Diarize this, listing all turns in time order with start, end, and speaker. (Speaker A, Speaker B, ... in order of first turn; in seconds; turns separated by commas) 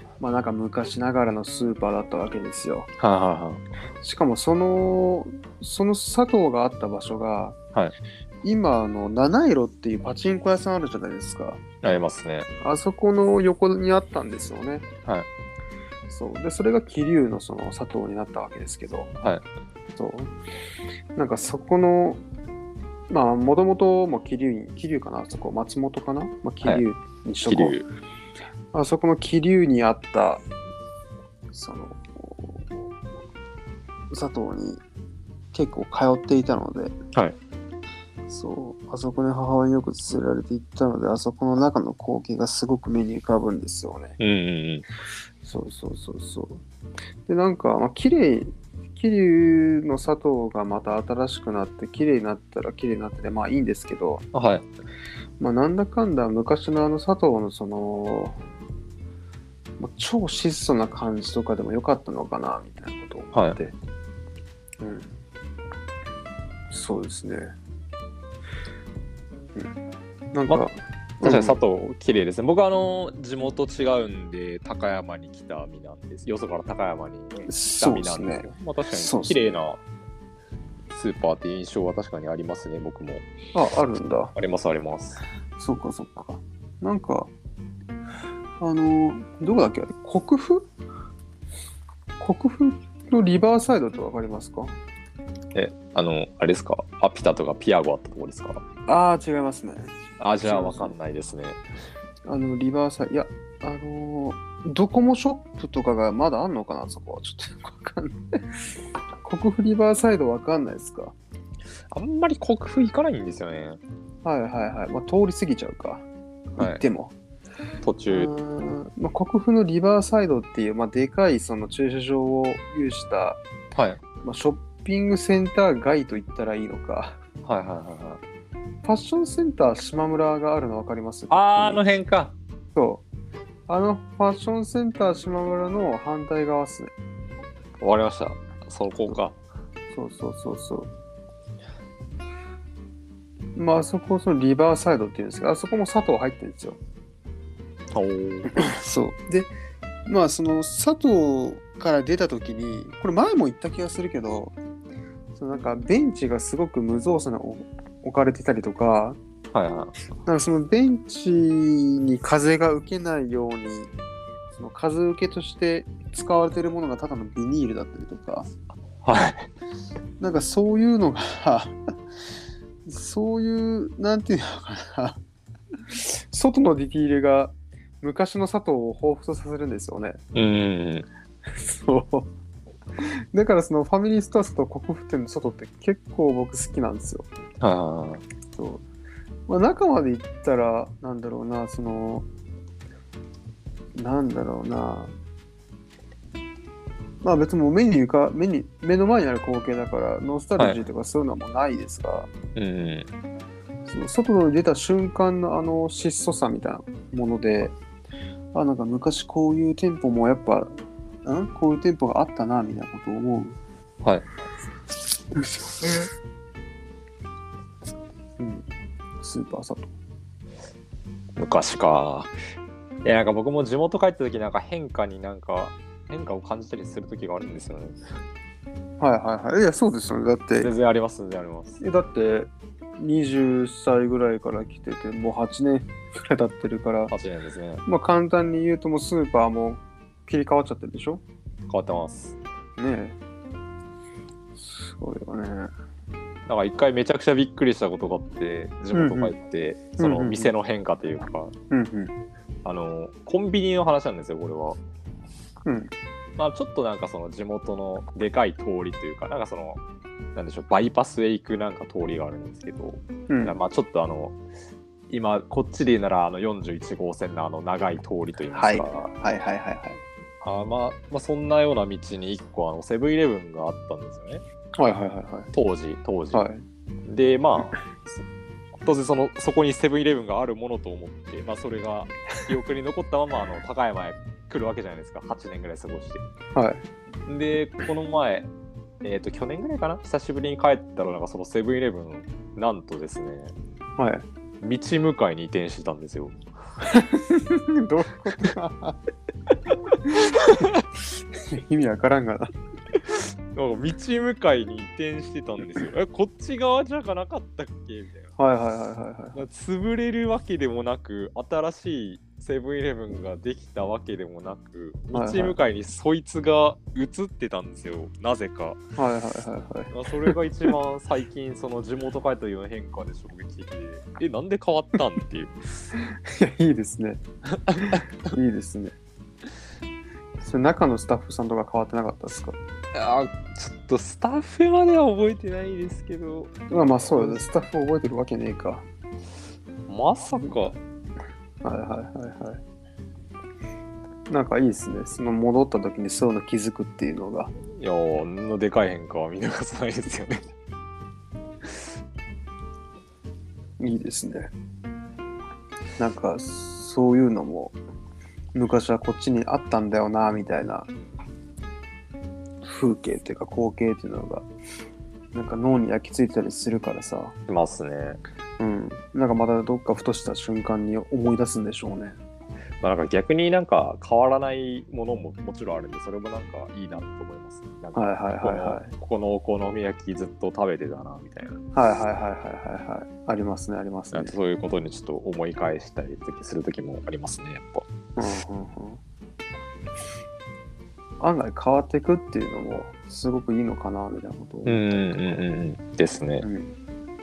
Speaker A: 0.2-2.9, Speaker B: 3.0-3.6, Speaker A: 4.0-7.5, Speaker A: 8.4-11.6, Speaker B: 11.8-12.5, Speaker A: 12.6-14.8, Speaker A: 16.1-19.1, Speaker A: 19.9-20.3, Speaker A: 21.1-22.2, Speaker A: 23.1-27.8, Speaker B: 27.4-27.8, Speaker A: 28.7-30.4, Speaker A: 31.5-32.7, Speaker A: 34.1-34.8, Speaker A: 35.5-36.9, Speaker A: 38.3-44.2, Speaker B: 44.2-44.8, Speaker A: 45.4-46.6, Speaker A: 47.3-54.2, Speaker B: 54.3-54.6, Speaker A: 55.4-58.4, Speaker A: 59.8-63.7, Speaker A: 64.8-65.1, Speaker A: 66.7-67.5, Speaker A: 70.3-71.6, Speaker B: 71.2-79.8, Speaker A: 77.5-79.5, Speaker B: 80.9-83.2, Speaker A: 83.5-84.3, Speaker B: 84.3-85.2, Speaker A: 85.6-87.3, Speaker A: 88.6-90.7, Speaker A: 92.2-94.7, Speaker B: 95.5-98.6, Speaker A: 98.9-100.9, Speaker B: 100.2-101.6, Speaker A: 102.3-108.3, Speaker A: 109.2-111.1, Speaker B: 111.9-113.8, Speaker A: 114.2-117.1, Speaker B: 117.8-118.3, Speaker A: 118.1-123.4, Speaker B: 123.7-124.0, Speaker A: 124.2-127.2, Speaker B: 127.4-128.2, Speaker A: 128.8-131.8, Speaker B: 131.3-132.3, Speaker A: 132.7-133.0, Speaker A: 133.7-136.9, Speaker B: 137.8-139.3, Speaker A: 139.9-140.9, Speaker A: 143.6-146.8, Speaker B: 147.9-148.5, Speaker A: 148.5-149.5, Speaker A: 150.1-154.5, Speaker A: 155.3-159.2, Speaker B: 159.5-159.9, Speaker A: 160.2-163.9, Speaker A: 164.5-168.5, Speaker B: 169.0-169.5, Speaker A: 170.2-171.8, Speaker A: 172.8-175.2, Speaker A: 176.3-180.2, Speaker B: 180.3-181.1, Speaker A: 181.6-182.3, Speaker A: 183.0-187.3, Speaker B: 187.6-188.2, Speaker A: 188.6-188.8, Speaker A: 189.5-192.2, Speaker A: 193.9-195.1, Speaker A: 197.2-202.3, Speaker B: 202.6-203.1, Speaker A: 203.9-207.7, Speaker A: 208.5-210.7, Speaker A: 211.2-213.6, Speaker A: 215.3-216.1, Speaker A: 218.4-218.6, Speaker A: 219.2-219.9, Speaker B: 221.3-222.3, Speaker B: 223.0-228.0, Speaker A: 229.0-230.7, Speaker B: 230.6-231.8, Speaker A: 231.8-237.1, Speaker B: 237.1-237.8, Speaker A: 237.8-241.2, Speaker B: 241.7-242.4, Speaker A: 242.8-243.2, Speaker A: 244.6-245.7, Speaker B: 246.5-251.5, Speaker A: 248.9-249.3, Speaker A: 250.0-250.5, Speaker A: 251.7-252.1, Speaker B: 252.6-254.8, Speaker A: 255.6-255.9, Speaker B: 256.4-259.8, Speaker B: 260.3-264.4, Speaker A: 263.3-263.6, Speaker B: 265.1-269.1, Speaker A: 268.5-270.0, Speaker B: 270.4-274.4, Speaker A: 274.8-275.5, Speaker B: 275.5-276.5, Speaker A: 276.3-276.6, Speaker B: 277.1-277.8, Speaker B: 278.8-286.2, Speaker A: 286.5-286.8, Speaker B: 287.3-288.5, Speaker B: 289.0-293.5, Speaker A: 294.0-294.2, Speaker B: 294.6-296.4, Speaker A: 296.8-299.0, Speaker B: 300.3-300.8, Speaker A: 301.4-302.5, Speaker B: 303.1-308.3, Speaker A: 308.4-309.4, Speaker B: 309.3-318.8, Speaker A: 315.1-315.6, Speaker A: 319.0-320.7, Speaker B: 319.9-325.6, Speaker A: 325.9-327.2, Speaker B: 327.7-328.1, Speaker A: 327.7-328.9, Speaker A: 330.4-332.6, Speaker B: 332.9-337.4, Speaker A: 336.7-338.8, Speaker B: 339.9-340.8, Speaker A: 341.6-342.6, Speaker A: 344.3-347.5, Speaker B: 347.7-350.4, Speaker A: 353.8-354.5, Speaker A: 356.0-357.8, Speaker A: 358.5-360.9, Speaker A: 362.6-364.4, Speaker A: 365.3-367.4, Speaker B: 367.5-368.2, Speaker A: 368.6-372.2, Speaker B: 372.8-381.6, Speaker A: 377.9-378.9, Speaker A: 381.7-384.3, Speaker B: 384.1-387.8, Speaker A: 388.2-389.0, Speaker A: 391.2-395.4, Speaker B: 394.6-396.5, Speaker A: 396.4-396.7